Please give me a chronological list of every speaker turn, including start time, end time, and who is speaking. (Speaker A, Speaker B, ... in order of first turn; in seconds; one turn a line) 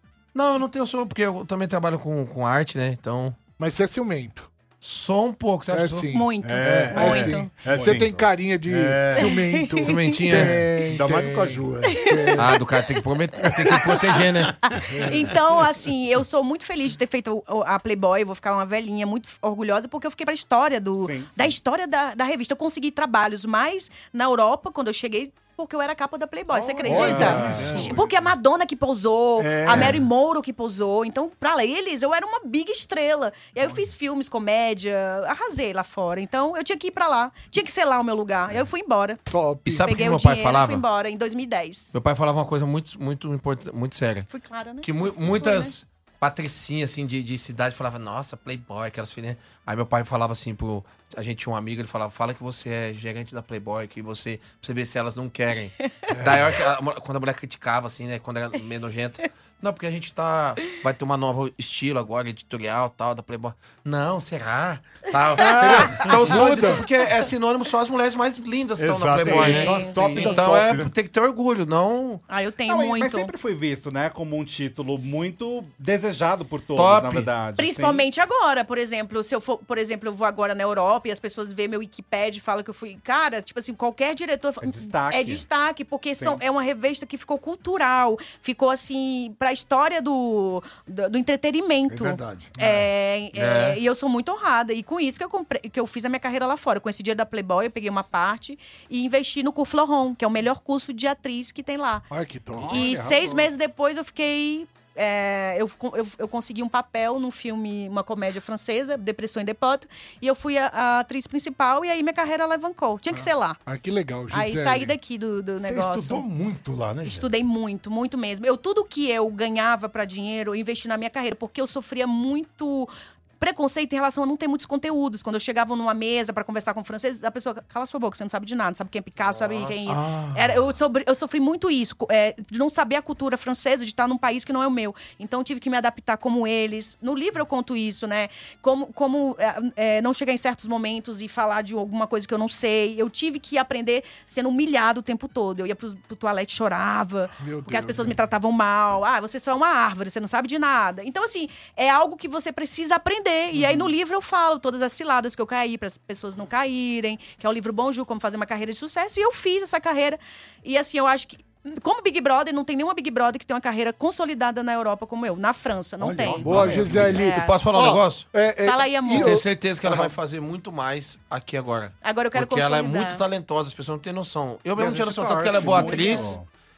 Speaker A: 0.3-3.4
Speaker B: 3.6-4.5
Speaker A: 4.8-6.2
Speaker B: 5.7-12.4
Speaker C: 6.1-7.5
Speaker D: 6.4-9.3
Speaker E: 7.7-8.1
Speaker C: 9.1-10.3
Speaker A: 9.8-10.6
Speaker D: 10.3-12.6
Speaker C: 11.9-12.3
Speaker A: 12.4-14.6
Speaker C: 13.5-13.9
Speaker C: 14.7-39.2
Speaker D: 14.7-15.2
Speaker B: 14.9-15.2
Speaker E: 21.0-21.6
Speaker B: 26.6-28.1
Speaker D: 26.8-28.0
Speaker E: 26.8-27.9
Speaker D: 29.4-30.0
Speaker B: 39.3-39.9
Speaker A: 39.7-40.9
Speaker C: 39.7-41.9
Speaker A: 41.9-44.3
Speaker C: 44.3-45.8
Speaker A: 44.8-72.2
Speaker D: 56.1-56.4
Speaker D: 65.4-66.3
Speaker C: 65.5-66.1
Speaker B: 66.2-66.8
Speaker D: 68.8-70.9
Speaker E: 69.2-70.5
Speaker C: 69.3-70.5
Speaker C: 72.3-73.3
Speaker E: 72.7-78.1
Speaker A: 76.8-77.4
Speaker C: 77.5-102.1
Speaker E: 84.6-85.5
Speaker D: 91.9-92.7
Speaker A: 93.3-93.8
Speaker B: 102.1-102.8
Speaker E: 102.6-103.5
Speaker C: 102.7-113.6
Speaker B: 113.1-115.0
Speaker C: 114.3-116.2
Speaker D: 115.6-117.3
Speaker C: 117.0-167.7
Speaker D: 129.9-130.6
Speaker B: 147.4-148.2
Speaker B: 153.6-153.9
Speaker D: 166.0-167.2
Speaker E: 166.1-167.2
Speaker B: 166.4-169.4
Speaker A: 167.2-168.4
Speaker C: 168.6-169.4
Speaker A: 169.1-176.4
Speaker C: 172.0-173.2
Speaker E: 174.8-176.5
Speaker D: 175.5-175.9
Speaker C: 175.9-176.3